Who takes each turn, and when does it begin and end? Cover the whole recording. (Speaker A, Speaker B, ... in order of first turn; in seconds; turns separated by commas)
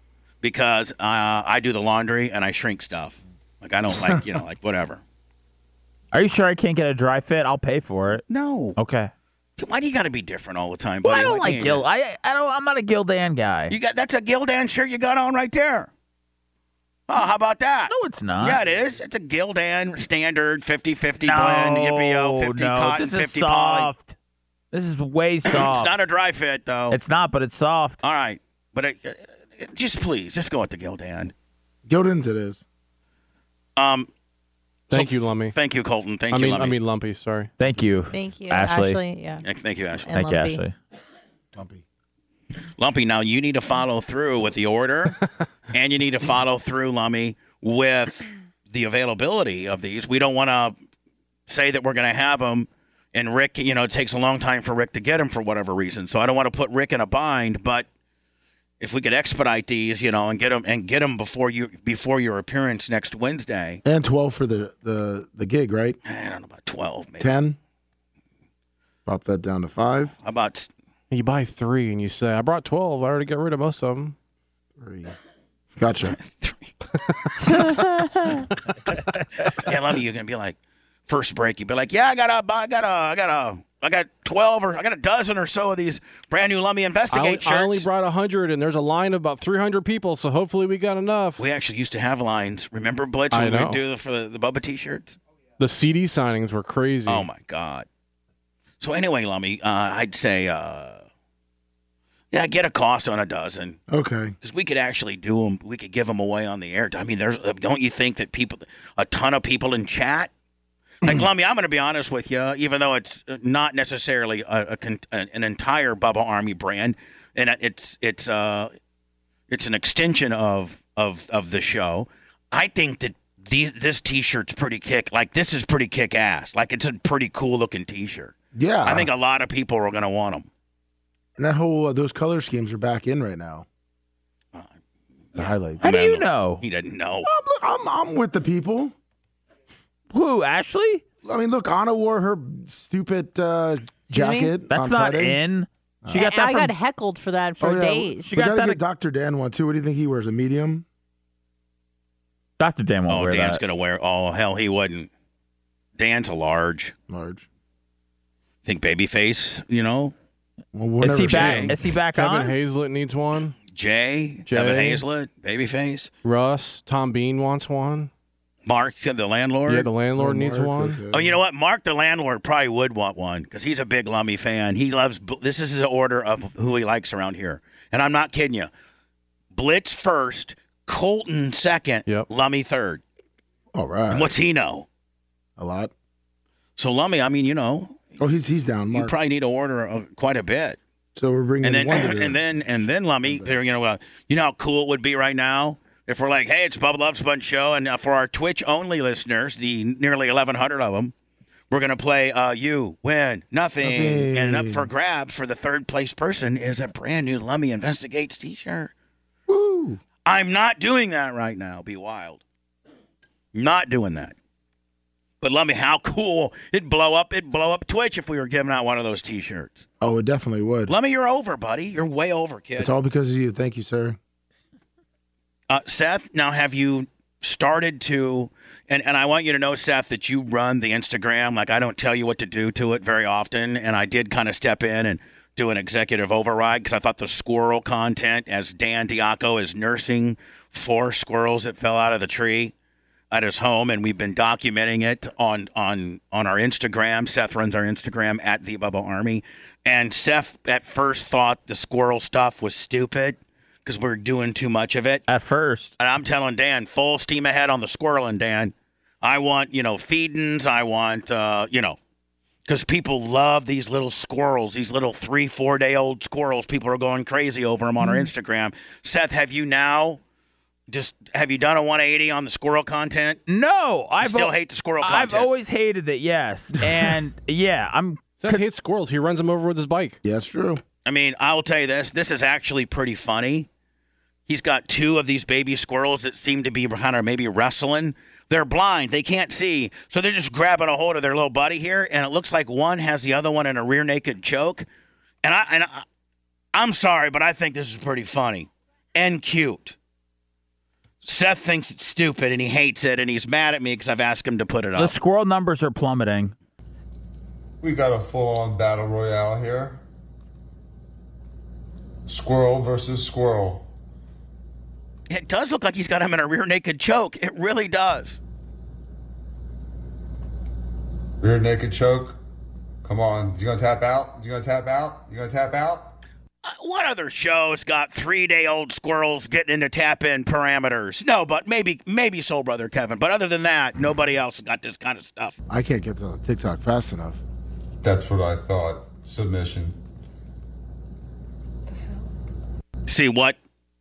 Speaker A: 0.4-5.0, Speaker B: 6.1-8.2, Speaker A: 8.3-8.8, Speaker B: 8.8-9.1, Speaker A: 9.6-11.8, Speaker B: 11.0-13.7, Speaker A: 13.7-15.9, Speaker A: 17.1-23.9, Speaker B: 17.9-18.6, Speaker B: 21.2-24.1, Speaker B: 24.7-26.0, Speaker A: 25.5-27.0, Speaker B: 26.9-28.0, Speaker A: 28.0-31.3, Speaker C: 31.9-32.6, Speaker A: 33.8-34.1, Speaker A: 34.9-36.8, Speaker D: 34.9-35.5, Speaker D: 36.3-37.5, Speaker B: 37.6-39.0, Speaker E: 38.1-39.4, Speaker A: 39.4-40.1, Speaker E: 40.1-40.6, Speaker B: 40.1-40.7, Speaker C: 41.5-41.8, Speaker A: 42.8-45.2, Speaker A: 45.7-50.8, Speaker A: 51.5-57.9, Speaker A: 58.8-63.8, Speaker C: 63.8-66.0, Speaker A: 66.0-67.3, Speaker C: 67.2-67.6, Speaker C: 69.0-70.1, Speaker A: 70.2-70.7, Speaker D: 71.1-74.1, Speaker C: 74.8-75.1, Speaker C: 75.8-76.2, Speaker A: 76.2-76.7, Speaker E: 77.4-78.5, Speaker A: 79.6-80.5, Speaker A: 81.1-87.8, Speaker D: 87.1-91.5, Speaker A: 91.4-95.2, Speaker D: 93.3-93.8, Speaker D: 95.6-97.3, Speaker A: 97.1-97.9, Speaker A: 98.8-101.0, Speaker A: 102.3-103.8, Speaker C: 103.9-104.3, Speaker A: 104.4-110.3, Speaker A: 111.0-118.7, Speaker A: 119.5-130.5, Speaker C: 128.5-129.1, Speaker C: 131.4-133.6, Speaker C: 135.3-135.8, Speaker A: 135.4-137.3, Speaker B: 135.8-136.6, Speaker C: 137.2-138.9, Speaker B: 140.1-141.0, Speaker C: 141.2-145.4, Speaker E: 144.1-144.6, Speaker B: 144.7-146.8, Speaker C: 146.0-146.3, Speaker E: 146.1-148.3, Speaker C: 147.6-150.8, Speaker B: 148.3-148.8, Speaker B: 152.6-153.6, Speaker A: 153.1-155.1, Speaker A: 156.0-156.9, Speaker C: 157.1-157.4, Speaker A: 158.6-160.1, Speaker C: 160.7-161.8, Speaker B: 161.0-162.6, Speaker D: 161.3-163.6, Speaker A: 163.7-166.1, Speaker D: 164.4-165.0, Speaker D: 166.2-168.1, Speaker A: 168.7-169.9, Speaker D: 169.7-171.0, Speaker C: 170.2-171.4, Speaker A: 171.1-178.7, Speaker A: 179.5-183.0, Speaker C: 183.7-184.3, Speaker A: 184.1-184.9, Speaker C: 185.6-185.9, Speaker A: 186.8-188.0, Speaker C: 188.2-189.1, Speaker A: 188.9-190.8, Speaker C: 191.1-192.4, Speaker A: 191.6-201.1, Speaker C: 193.2-193.5, Speaker A: 201.7-208.9, Speaker C: 203.8-204.9, Speaker C: 209.5-210.0, Speaker A: 210.2-212.4, Speaker A: 213.5-214.3, Speaker A: 215.4-219.8, Speaker C: 220.0-220.9, Speaker A: 220.9-222.9, Speaker C: 222.8-224.2, Speaker A: 225.7-242.7, Speaker A: 243.3-255.2, Speaker B: 255.3-256.0, Speaker A: 256.0-262.0, Speaker A: 262.6-270.2, Speaker A: 270.9-273.4, Speaker B: 273.5-278.6, Speaker A: 274.2-275.5, Speaker D: 278.4-280.2, Speaker C: 280.2-280.8, Speaker A: 281.0-283.7, Speaker A: 284.5-294.9, Speaker A: 295.4-296.0, Speaker A: 296.7-299.9, Speaker A: 301.2-305.1, Speaker B: 304.9-306.5, Speaker F: 307.8-310.0, Speaker F: 312.2-313.9, Speaker A: 315.3-318.4, Speaker F: 321.4-322.4, Speaker F: 323.0-326.2, Speaker A: 326.6-335.5, Speaker C: 335.7-337.4, Speaker F: 338.0-340.0, Speaker A: 343.1-343.6